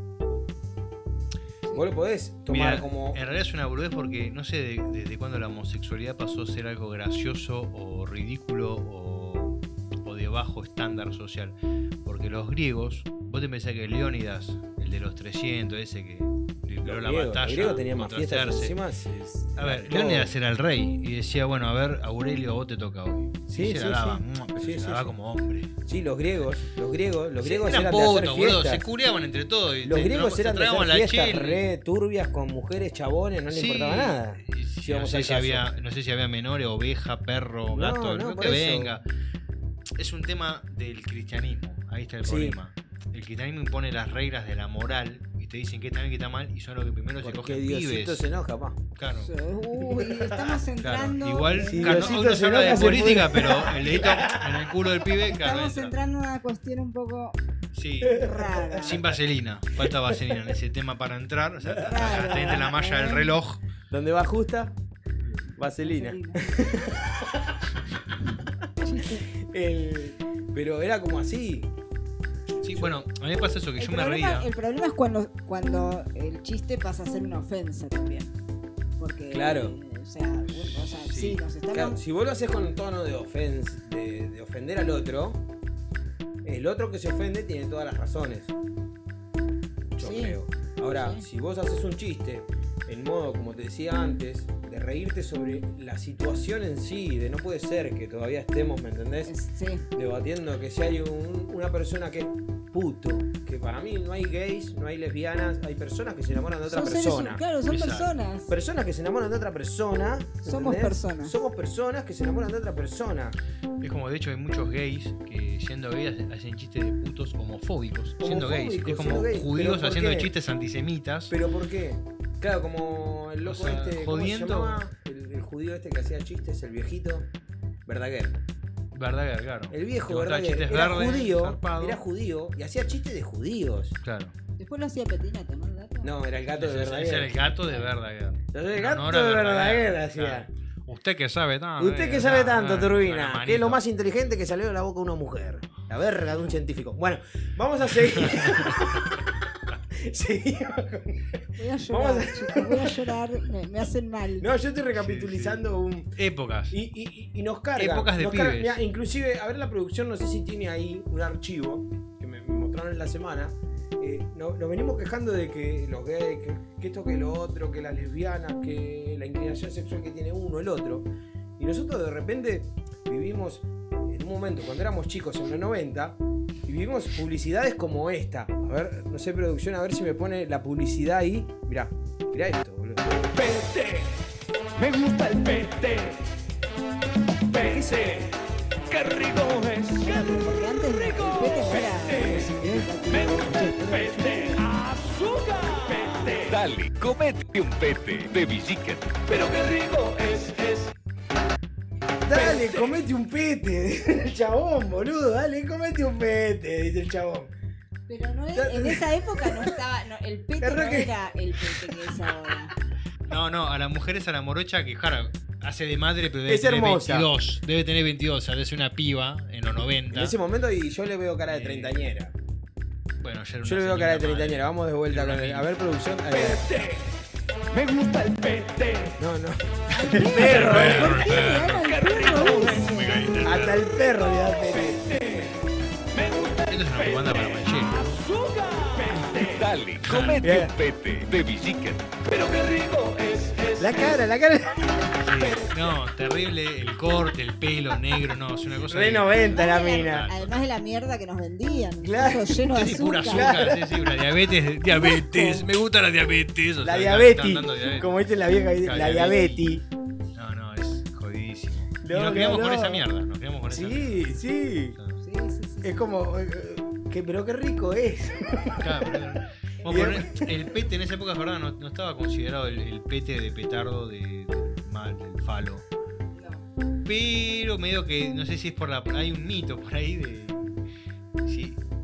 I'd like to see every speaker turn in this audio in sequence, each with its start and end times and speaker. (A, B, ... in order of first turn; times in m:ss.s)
0:01.7-0:03.2 A
0:02.5-0:18.8 B
0:16.8-0:20.3 A
0:19.6-0:25.7 B
0:23.5-0:25.1 A
0:25.8-0:28.9 A
0:27.4-0:31.6 B
0:29.8-0:35.7 A
0:33.5-0:39.0 B
0:37.7-0:38.9 A
0:40.0-0:48.3 B
0:42.2-0:42.6 A
0:47.2-0:48.8 A
0:49.0-0:49.3 B
0:49.2-0:52.2 C
0:49.9-0:50.6 A
0:50.8-0:55.9 B
0:51.6-0:54.7 A
0:55.2-0:57.4 C
0:57.7-1:03.6 B
0:58.0-0:59.0 C
0:58.3-0:59.0 A
1:01.6-1:02.6 A
1:01.8-1:03.3 C
1:03.9-1:04.7 A
1:05.5-1:07.6 A
1:05.8-1:06.5 C
1:08.8-1:09.2 C
1:09.0-1:11.7 A
1:12.6-1:14.5 B
1:12.6-1:13.0 A
1:13.8-1:18.3 C
1:19.0-1:22.0 C
1:19.3-1:19.8 A
1:20.6-1:21.4 B
1:21.7-1:25.4 A
1:26.4-1:28.5 A
1:29.9-1:39.3 A
1:30.0-1:30.4 C
1:30.9-1:31.2 C
1:39.3-1:39.9 C
1:39.9-1:47.4 A
1:46.6-1:48.5 C
1:47.7-1:48.1 B
1:48.5-1:53.4 A
1:50.4-1:51.4 C
1:53.8-2:01.4 B
1:58.2-2:00.3 A
2:01.3-2:07.3 A
2:03.4-2:04.8 B
2:07.8-2:08.4 A
2:08.9-2:12.0 B
2:09.7-2:14.0 A
2:14.0-2:14.3 B
2:14.6-2:16.1 C
2:16.0-2:17.3 A
2:16.6-2:23.8 B
2:18.5-2:20.5 A
2:21.8-2:33.0 A
2:27.9-2:29.0 B
2:31.6-2:34.5 C
2:34.4-2:36.2 A
2:34.9-2:35.6 B
2:36.2-2:36.8 B
2:36.7-3:03.3 A
2:37.8-2:38.7 B
3:03.3-3:04.1 D
3:04.8-3:06.2 D
3:07.5-3:08.3 D
3:07.5-3:08.2 A
3:08.9-3:10.3 D
3:10.0-3:14.7 C
3:12.0-3:12.4 D
3:12.5-3:12.8 A
3:13.0-3:16.5 D
3:16.4-3:19.2 E
3:19.2-3:20.9 D
3:22.2-3:27.5 A
3:22.3-3:22.9 D
3:28.1-3:32.7 C
3:28.5-3:29.7 A
3:30.6-3:32.2 A
3:33.3-3:40.3 B
3:36.5-3:37.3 A
3:40.1-3:42.3 A
3:41.5-3:42.1 B
3:43.2-3:45.7 B
3:43.6-3:46.9 A
3:46.3-3:47.0 D
3:47.7-3:49.1 D
3:49.2-3:51.3 A
3:49.9-3:53.2 C
3:50.2-3:53.8 B
3:51.4-3:52.9 D
3:53.4-3:55.3 A
3:54.4-3:55.5 D
3:56.1-3:59.7 D
3:56.7-3:58.2 B
3:59.4-4:02.1 E
4:00.0-4:00.5 B
4:00.4-4:00.7 A
4:02.2-4:04.2 D
4:03.8-4:05.1 A
4:05.2-4:10.6 B
4:08.8-4:10.3 A
4:09.5-4:13.5 C
4:12.0-4:12.7 A
4:12.7-4:18.1 B
4:13.3-4:13.9 A
4:16.8-4:19.8 A
4:18.8-4:19.6 B
4:20.4-4:24.3 B
4:22.0-4:23.0 A
4:23.7-4:25.0 A
4:25.2-4:25.9 C
4:25.8-4:29.2 A
4:28.8-4:35.8 B
4:29.8-4:30.5 A
4:36.3-4:36.6 C
4:37.0-4:40.8 B
4:41.4-4:41.8 B